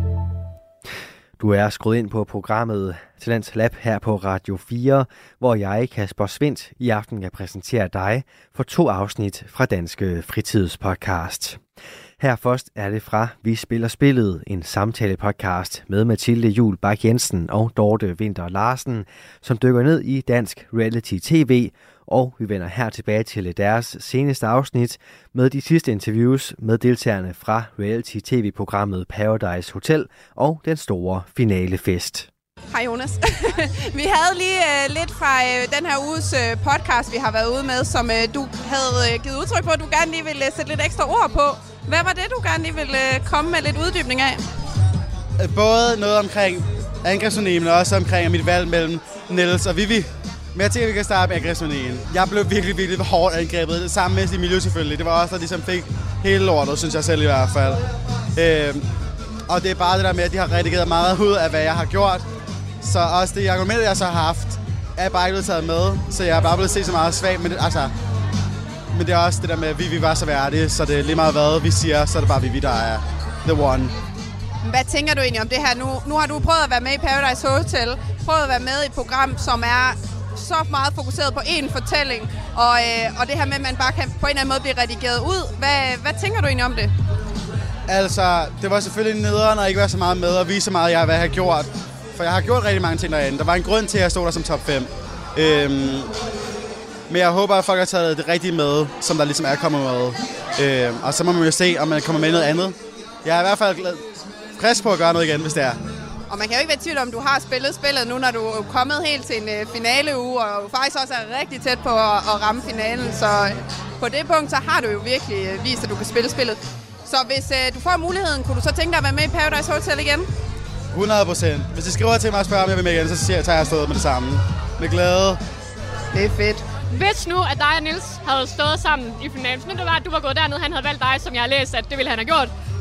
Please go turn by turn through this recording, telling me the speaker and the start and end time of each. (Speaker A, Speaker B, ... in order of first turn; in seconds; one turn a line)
Speaker A: 1.4-11.6
Speaker A: 12.2-32.3
Speaker B: 32.7-44.4
Speaker C: 45.4-57.8
Speaker C: 58.3-58.8
Speaker C: 59.5-62.2
Speaker C: 62.8-67.9
Speaker C: 68.9-73.9
Speaker B: 74.6-86.9
Speaker C: 87.9-96.1
Speaker C: 97.1-104.0
Speaker C: 104.6-105.8
Speaker B: 106.3-120.2
Speaker C: 120.9-125.4
Speaker B: 126.1-126.6
Speaker D: 126.9-132.5